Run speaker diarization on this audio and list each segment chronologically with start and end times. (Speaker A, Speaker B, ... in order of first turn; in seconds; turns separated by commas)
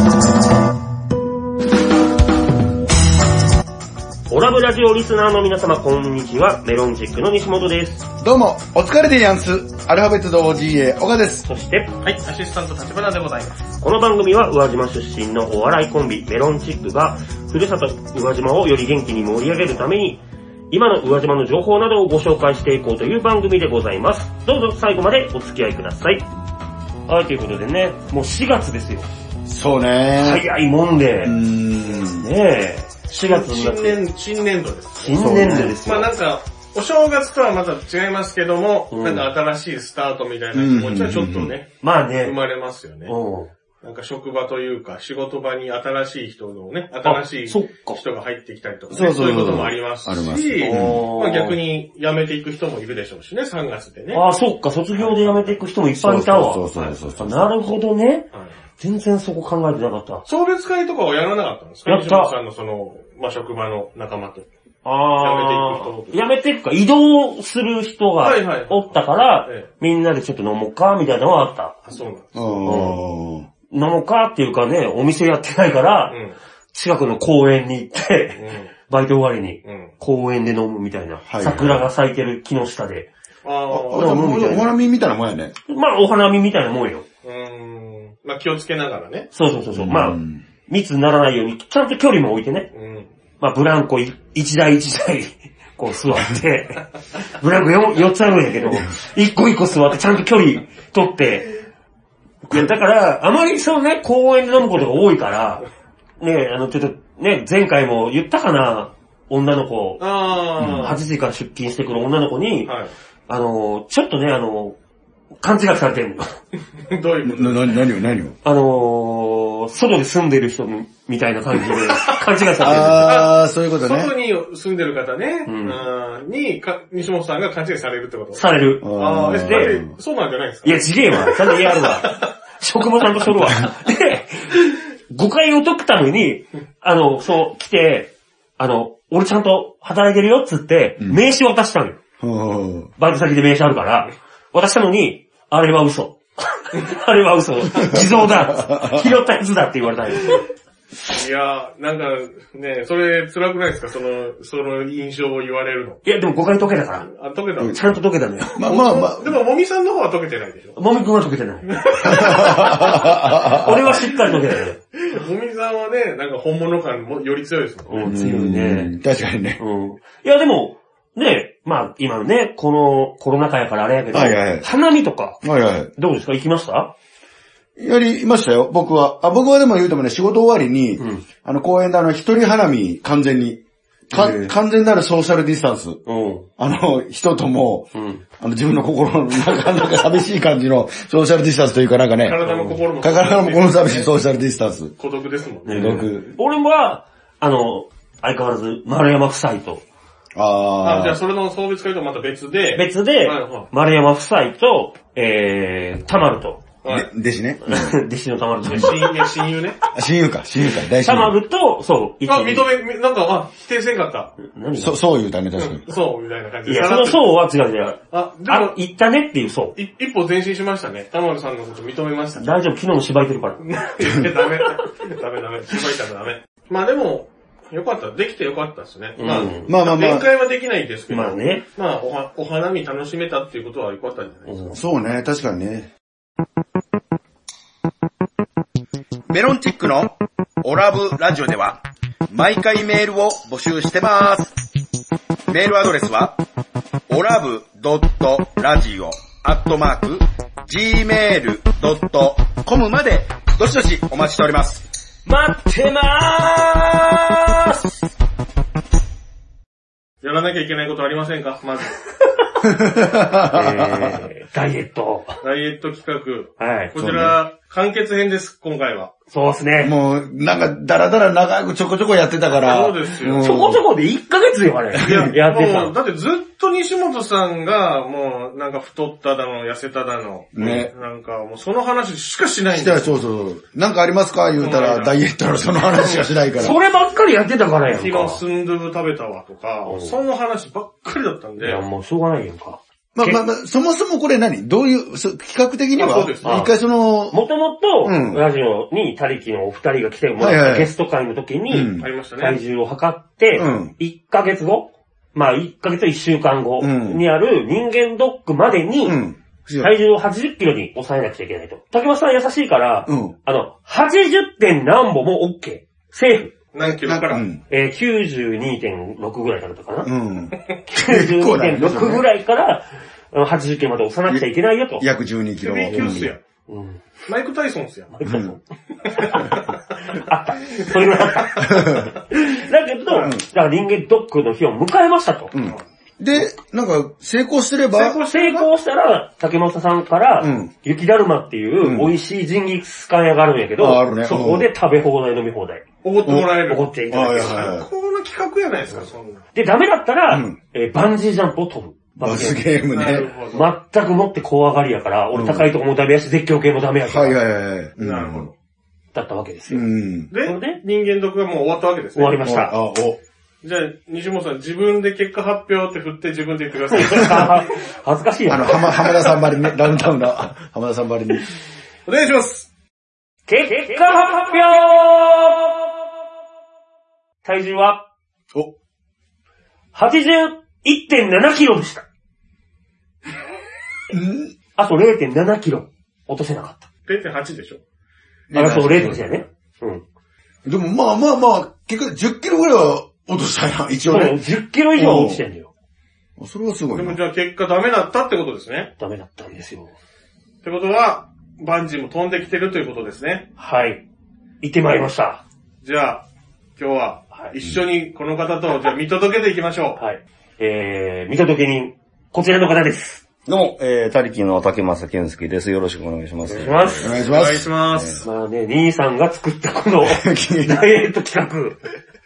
Speaker A: 4.3-8.0, Speaker B: 8.2-11.5, Speaker A: 11.5-11.9, Speaker C: 12.0-13.6, Speaker A: 13.8-26.2, Speaker A: 27.1-29.1, Speaker B: 29.5-30.4, Speaker A: 30.2-31.4, Speaker B: 31.2-32.3, Speaker A: 32.2-34.0, Speaker C: 33.1-43.2, Speaker A: 35.0-36.1, Speaker B: 35.2-35.8, Speaker A: 38.9-39.2, Speaker B: 40.5-41.5, Speaker A: 41.8-42.4, Speaker A: 43.0-43.5, Speaker C: 43.8-54.2, Speaker A: 47.0-48.0, Speaker B: 48.9-51.0, Speaker A: 50.6-51.6, Speaker A: 54.1-58.3, Speaker C: 55.0-55.6, Speaker B: 55.9-57.5, Speaker A: 58.8-60.2, Speaker C: 60.3-64.5, Speaker A: 61.9-62.3, Speaker A: 64.8-71.8, Speaker C: 65.2-66.1, Speaker C: 68.2-69.7, Speaker C: 71.9-72.9, Speaker B: 72.3-73.5, Speaker A: 72.7-73.0, Speaker A: 73.7-76.2, Speaker C: 76.1-76.4, Speaker A: 76.7-83.1, Speaker C: 78.4-78.7, Speaker C: 79.6-79.9, Speaker B: 81.3-81.8, Speaker C: 83.4-84.7, Speaker B: 83.7-85.5, Speaker A: 83.9-84.7, Speaker A: 85.7-87.0, Speaker C: 87.2-89.3, Speaker A: 89.3-92.7, Speaker B: 89.7-90.4, Speaker C: 92.7-93.1, Speaker A: 93.4-101.5, Speaker A: 102.5-105.7, Speaker A: 106.2-110.0, Speaker C: 110.0-111.0, Speaker B: 110.6-110.9, Speaker A: 110.8-112.7, Speaker C: 112.7-112.9, Speaker A: 113.3-114.8, Speaker A: 115.4-116.4, Speaker C: 116.8-117.8, Speaker B: 117.2-118.4, Speaker A: 118.4-123.1, Speaker B: 122.6-124.1, Speaker C: 123.0-128.4, Speaker A: 125.5-125.8, Speaker A: 128.3-129.8, Speaker B: 128.8-129.9, Speaker C: 128.9-132.2, Speaker A: 130.6-142.0, Speaker B: 142.2-142.9, Speaker A: 143.0-150.4, Speaker B: 147.8-149.2, Speaker C: 151.1-156.0, Speaker A: 156.1-157.1, Speaker C: 157.1-157.9, Speaker A: 157.7-158.6, Speaker B: 158.6-159.3, Speaker C: 158.6-160.8, Speaker A: 160.8-164.8, Speaker C: 161.7-162.6, Speaker B: 162.0-164.1, Speaker C: 165.0-168.1, Speaker A: 167.9-168.9, Speaker B: 168.0-169.6, Speaker A: 169.6-175.4, Speaker B: 174.1-174.7, Speaker B: 175.4-175.9, Speaker A: 175.9-176.9, Speaker B: 177.8-186.0, Speaker A: 181.0-181.2, Speaker A: 184.1-184.5, Speaker A: 186.1-186.5, Speaker B: 186.6-194.9, Speaker A: 187.9-188.2, Speaker C: 192.2-194.2, Speaker C: 195.0-196.0, Speaker A: 195.7-199.8, Speaker B: 195.7-196.4, Speaker B: 200.4-201.2, Speaker C: 200.8-203.7, Speaker A: 202.8-206.6, Speaker C: 206.8-207.1, Speaker B: 206.9-208.0, Speaker A: 207.7-209.1, Speaker C: 208.7-209.8, Speaker B: 209.9-211.4, Speaker A: 211.0-212.7, Speaker C: 212.3-214.4, Speaker A: 214.4-215.0, Speaker B: 214.8-215.9, Speaker C: 215.6-217.3, Speaker A: 216.7-219.8, Speaker C: 218.1-218.8, Speaker C: 219.8-222.6, Speaker A: 222.4-223.7, Speaker C: 223.6-234.6, Speaker A: 229.2-229.7, Speaker B: 229.7-230.3, Speaker A: 231.1-231.7, Speaker A: 234.5-234.8, Speaker B: 234.7-235.9, Speaker D: 239.3-244.6, Speaker D: 245.5-246.4, Speaker D: 247.1-254.8, Speaker A: 255.3-257.8, Speaker C: 260.2-262.0, Speaker B: 262.6-264.2, Speaker A: 263.5-265.4, Speaker C: 265.4-269.1, Speaker A: 266.6-266.9, Speaker B: 266.9-267.4, Speaker A: 269.3-269.9, Speaker B: 269.8-273.8, Speaker C: 272.6-273.5, Speaker A: 273.4-275.9, Speaker B: 274.9-275.3, Speaker C: 275.0-283.1, Speaker B: 280.6-280.9, Speaker B: 282.7-286.8, Speaker C: 284.6-285.2, Speaker C: 286.0-286.4, Speaker A: 286.6-288.4, Speaker C: 287.9-291.8, Speaker A: 289.9-290.2, Speaker A: 291.6-293.4, Speaker B: 293.1-297.4, Speaker C: 295.9-296.6, Speaker A: 296.4-296.7, Speaker A: 297.3-309.2, Speaker B: 298.0-298.4, Speaker B: 300.4-300.9, Speaker B: 301.7-302.1, Speaker C: 302.0-302.6, Speaker B: 303.6-303.9, Speaker B: 306.8-307.2, Speaker B: 309.1-309.9, Speaker A: 309.8-316.5, Speaker B: 313.1-313.4, Speaker C: 316.7-317.5, Speaker B: 316.8-317.6, Speaker A: 317.7-320.1, Speaker B: 320.0-322.3, Speaker A: 320.9-325.1, Speaker B: 325.0-326.3, Speaker C: 325.6-326.4, Speaker A: 325.9-327.0, Speaker C: 327.3-328.2, Speaker A: 328.2-329.4, Speaker B: 328.2-328.6, Speaker C: 329.1-329.6, Speaker A: 330.0-335.5, Speaker B: 331.6-332.1, Speaker B: 335.5-338.2, Speaker C: 337.9-338.7, Speaker A: 338.3-345.8, Speaker B: 340.4-340.7, Speaker B: 341.8-342.1, Speaker B: 343.8-344.7, Speaker C: 346.0-349.4, Speaker B: 346.3-347.9, Speaker A: 346.7-347.7, Speaker A: 349.6-352.6, Speaker B: 350.3-350.6, Speaker B: 352.2-353.3, Speaker C: 352.9-353.7, Speaker A: 353.5-357.4, Speaker B: 355.3-355.7, Speaker B: 357.1-358.5, Speaker C: 358.0-358.5, Speaker A: 359.1-359.9, Speaker B: 359.7-360.3, Speaker C: 360.3-362.5, Speaker A: 360.4-360.8, Speaker A: 362.2-362.7, Speaker B: 362.4-363.2, Speaker C: 363.6-367.7, Speaker A: 366.9-369.1, Speaker B: 368.5-371.5, Speaker C: 372.1-372.7, Speaker A: 373.5-375.9, Speaker A: 377.4-378.1, Speaker A: 379.9-382.1, Speaker B: 384.1-384.5, Speaker A: 384.8-386.9, Speaker C: 387.1-387.8, Speaker B: 388.5-389.4, Speaker A: 388.5-390.0, Speaker B: 390.6-394.4, Speaker A: 394.1-395.7, Speaker E: 395.1-395.4, Speaker B: 396.4-397.2, Speaker C: 396.9-398.9, Speaker A: 399.0-399.9, Speaker C: 400.6-403.5, Speaker A: 403.6-404.0, Speaker A: 404.6-405.4, Speaker C: 405.8-406.2, Speaker C: 406.8-410.0, Speaker A: 410.0-413.2, Speaker E: 413.5-417.3, Speaker A: 416.4-417.2, Speaker B: 417.0-418.2, Speaker C: 417.2-418.3, Speaker A: 418.2-421.8, Speaker B: 420.0-420.9